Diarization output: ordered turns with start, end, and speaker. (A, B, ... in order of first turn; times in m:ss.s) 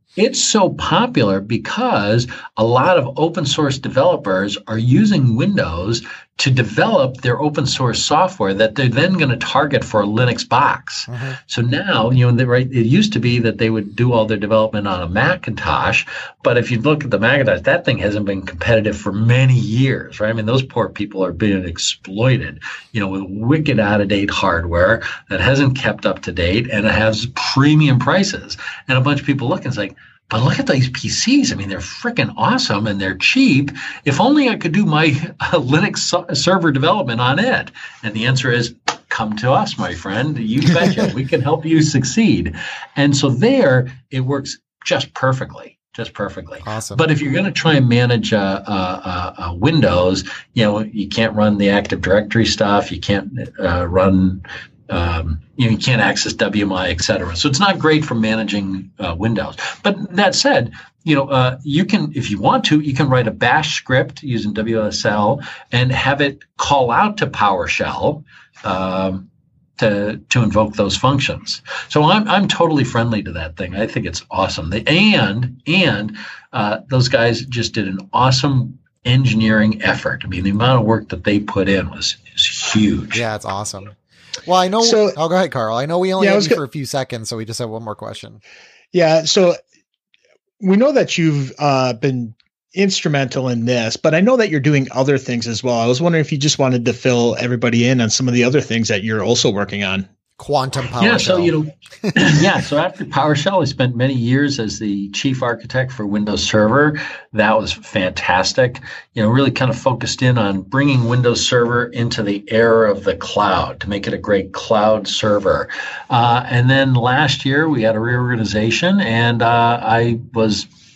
0:00.2-1:09.3 A
0:11.1-0:11.4 B
0:46.6-0:47.0 B
1:09.8-1:23.2 A
1:23.1-1:28.4 B
1:24.8-1:25.2 C
1:26.2-1:26.6 C
1:28.9-1:29.6 C
1:30.6-1:40.1 C
1:40.4-1:41.5 B
1:41.0-2:00.7 A
1:42.0-1:42.5 B